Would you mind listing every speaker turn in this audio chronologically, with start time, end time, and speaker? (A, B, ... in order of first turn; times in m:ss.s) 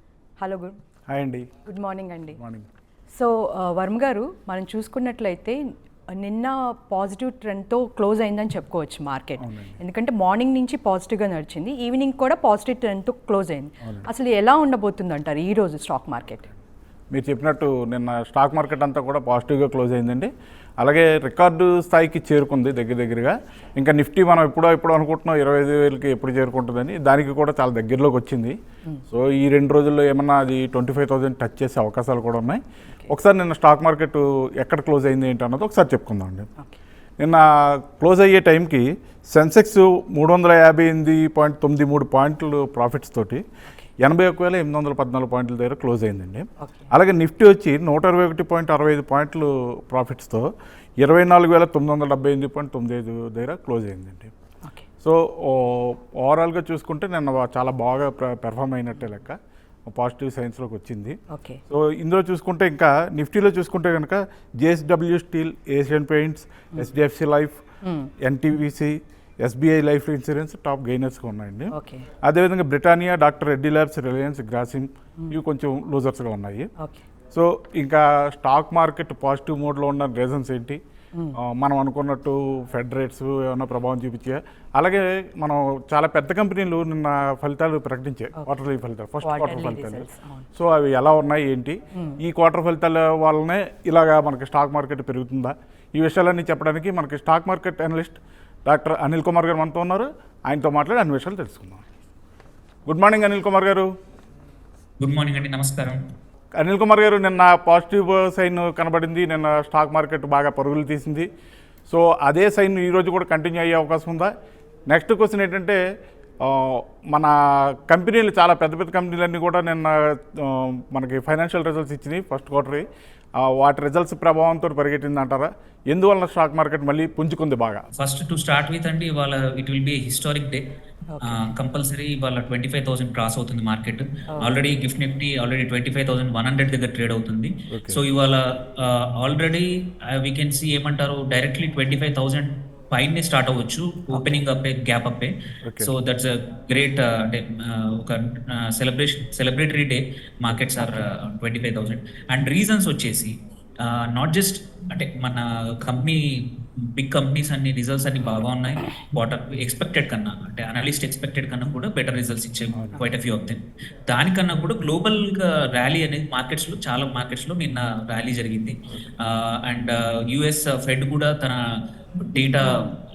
0:00.4-0:00.8 A
0:01.1-0:01.5 B
0:01.6-0:02.4 A
0:02.4-0:02.7 B
0:03.1-0:16.5 A
0:09.4-0:09.8 B
0:17.1-0:28.6 B
0:29.1-0:36.5 B
0:37.2-0:43.4 B
0:44.0-0:54.3 B
0:46.6-0:46.9 A
0:55.0-0:59.4 B
0:59.9-1:01.2 B
1:01.3-1:01.6 A
1:01.7-1:07.6 B
1:07.8-1:08.1 A
1:08.2-1:11.7 B
1:11.7-1:12.1 A
1:12.2-1:16.7 B
1:17.3-1:20.8 B
1:21.4-1:41.8 B
1:29.2-1:30.5 A
1:31.9-1:32.2 A
1:42.9-1:43.9 B
1:45.0-1:46.0 C
1:46.6-1:51.3 B
1:51.9-1:54.3 B
1:54.9-1:55.8 B
1:56.4-2:02.8 B
2:03.4-2:07.8 B
2:08.0-2:10.6 C
2:11.1-2:11.4 A
2:11.2-2:51.6 C
2:14.3-2:14.6 A
2:17.7-2:18.0 B
2:24.1-2:24.4 A
2:25.6-2:25.9 B
2:30.8-2:31.1 A
2:42.7-2:43.0 B
2:52.2-2:52.9 C
2:52.6-2:52.9 A